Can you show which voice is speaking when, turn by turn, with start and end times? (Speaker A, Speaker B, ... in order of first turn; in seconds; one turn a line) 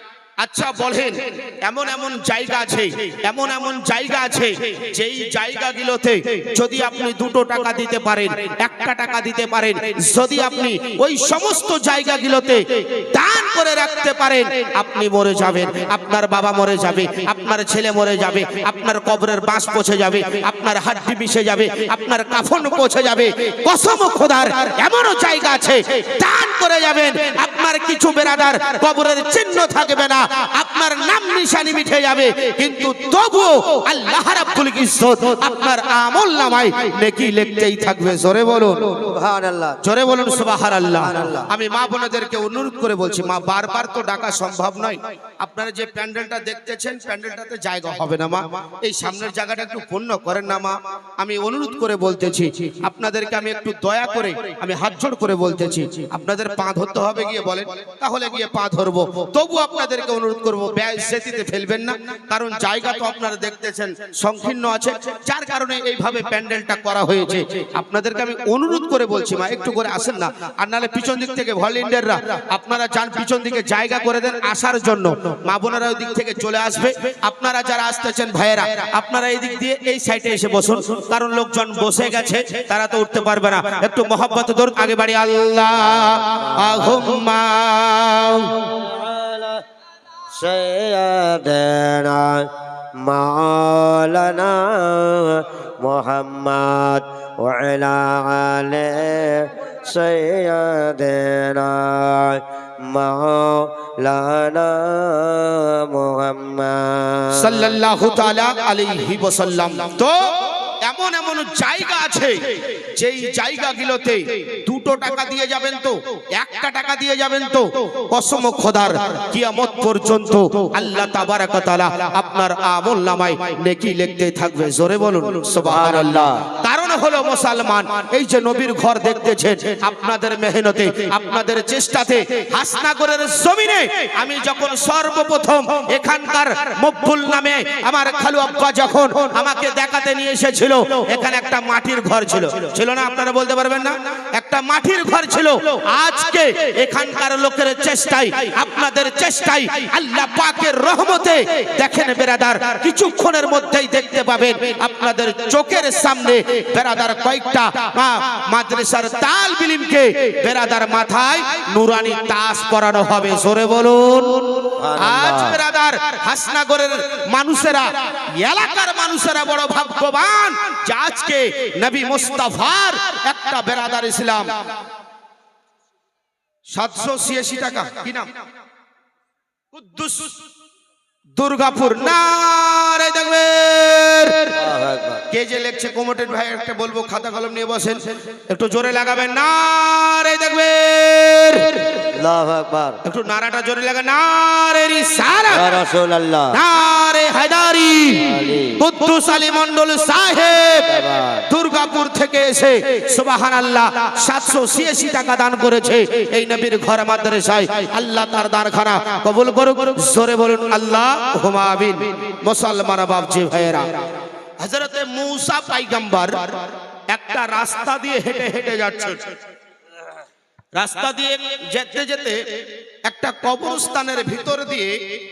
Speaker A: 0.4-39.1
Speaker B: 39.1-39.8
Speaker A: 39.8-88.7
Speaker B: 41.0-41.5
Speaker B: 86.3-87.1
Speaker B: 88.7-89.6
Speaker B: 90.3-107.7
Speaker A: 107.3-174.7
Speaker B: 125.6-126.4
Speaker B: 164.8-165.6
Speaker A: 176.7-178.3
Speaker A: 179.7-180.4
Speaker A: 181.3-184.5
Speaker B: 184.5-185.2
Speaker A: 185.3-192.1
Speaker B: 192.1-193.0
Speaker A: 193.0-195.8
Speaker B: 195.5-196.6
Speaker A: 196.5-214.1
Speaker B: 198.1-198.8
Speaker B: 200.8-201.4
Speaker A: 214.6-219.3
Speaker A: 220.7-225.0